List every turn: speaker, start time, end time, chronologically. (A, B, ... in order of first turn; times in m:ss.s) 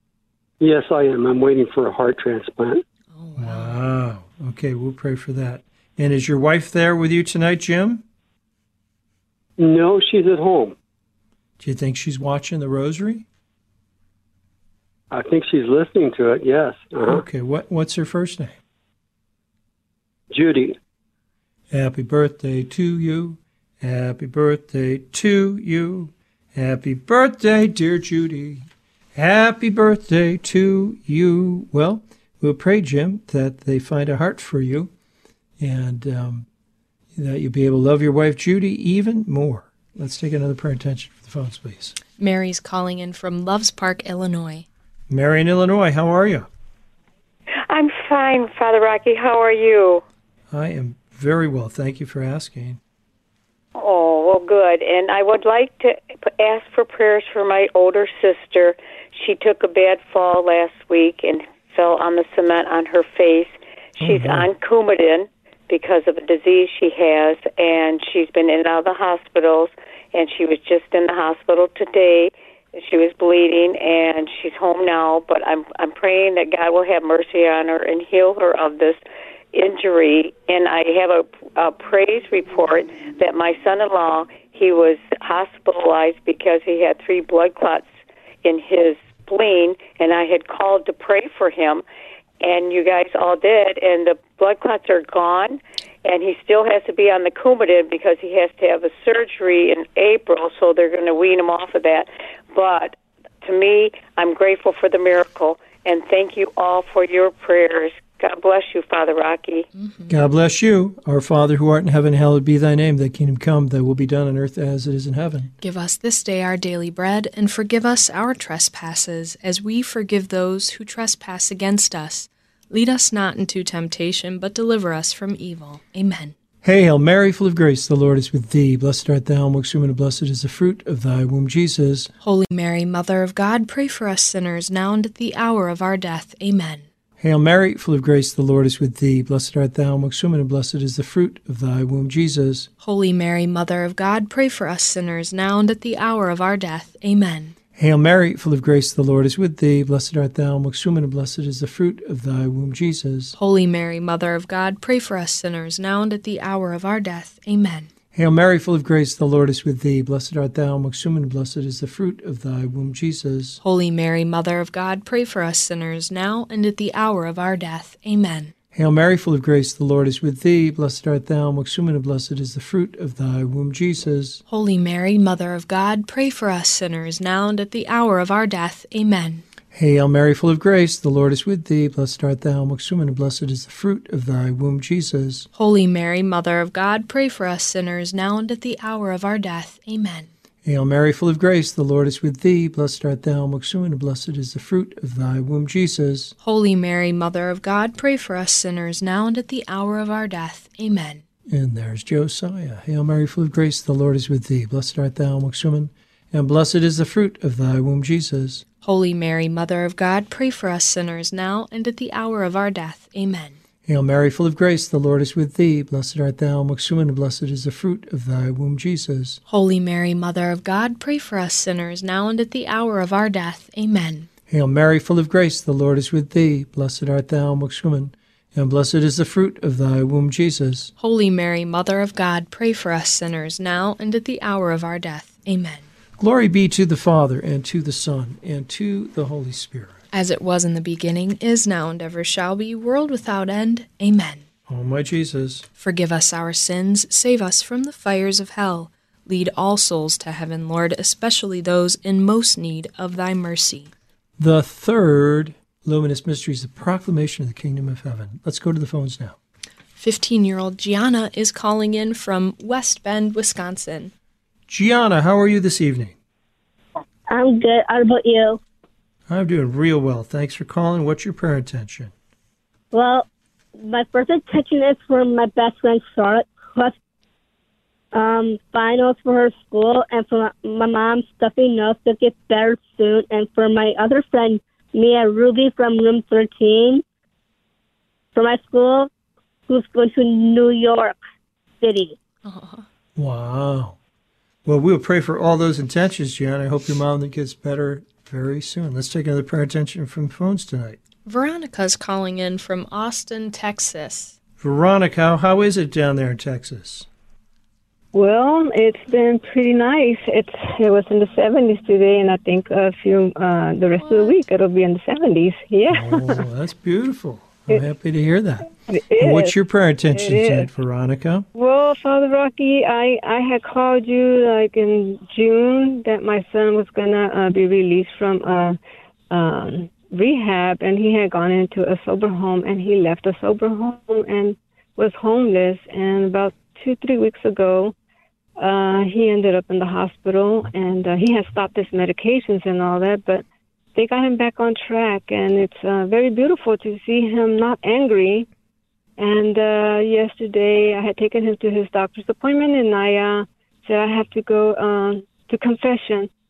0:00.6-0:02.8 A
0:03.1-0:03.8 B
0:03.4-0:08.0 C
0:09.6-0:10.7 A
0:11.6-0:13.2 C
0:15.1-0:17.2 A
0:17.0-0:18.6 C
0:20.3-0:20.8 A
0:21.7-0:34.9 C
0:35.6-0:36.5 C
0:37.1-0:42.0 C
0:42.2-0:44.7 B
0:45.1-0:46.5 C
0:47.7-0:50.0 D
0:50.5-0:52.8 C
0:53.8-1:19.0 D
1:04.0-1:04.5 C
1:19.5-1:27.8 D
1:28.4-1:31.8 D
1:32.4-1:49.6 D
1:49.7-1:50.1 B
1:50.1-1:55.5 C
1:55.6-2:06.3 B
2:06.6-2:12.1 C
2:12.2-2:16.8 B
2:17.2-2:22.7 C
2:22.8-2:27.5 B
2:27.8-2:33.3 C
2:33.4-2:37.9 B
2:38.1-2:43.6 C
2:43.6-2:48.5 B
2:48.7-2:54.4 C
2:54.5-2:59.4 B
2:59.7-3:05.5 C
3:05.5-3:10.3 B
3:10.6-3:16.3 C
3:16.4-3:21.2 B
3:21.5-3:28.6 C
3:28.8-3:33.6 B
3:33.8-3:39.4 C
3:39.5-3:44.3 B
3:44.5-3:50.9 C
3:51.0-3:55.8 B
3:56.2-4:00.0 C
4:00.1-4:04.4 B
4:04.7-4:05.7 C
4:05.8-4:13.9 B
4:14.4-4:19.4 C
4:20.0-4:24.1 B
4:24.7-4:26.2 C
4:27.3-4:28.6 E
4:29.3-4:32.1 C
4:32.9-4:36.9 E
4:38.1-4:47.0 E
4:48.3-4:49.1 E
4:49.7-4:51.2 E
4:51.8-4:52.2 E
4:52.4-4:52.8 B
4:53.2-4:54.0 C
4:54.6-5:01.0 C
5:01.2-5:04.4 B
5:04.6-5:07.1 C
5:08.1-5:16.4 F
5:14.0-5:14.3 B
5:15.9-5:21.4 C
5:18.9-5:19.5 F
5:20.1-5:20.7 F
5:21.5-5:28.8 F
5:29.3-5:37.9 F
5:38.6-5:43.4 F
5:43.9-5:48.5 F
5:49.2-5:56.3 F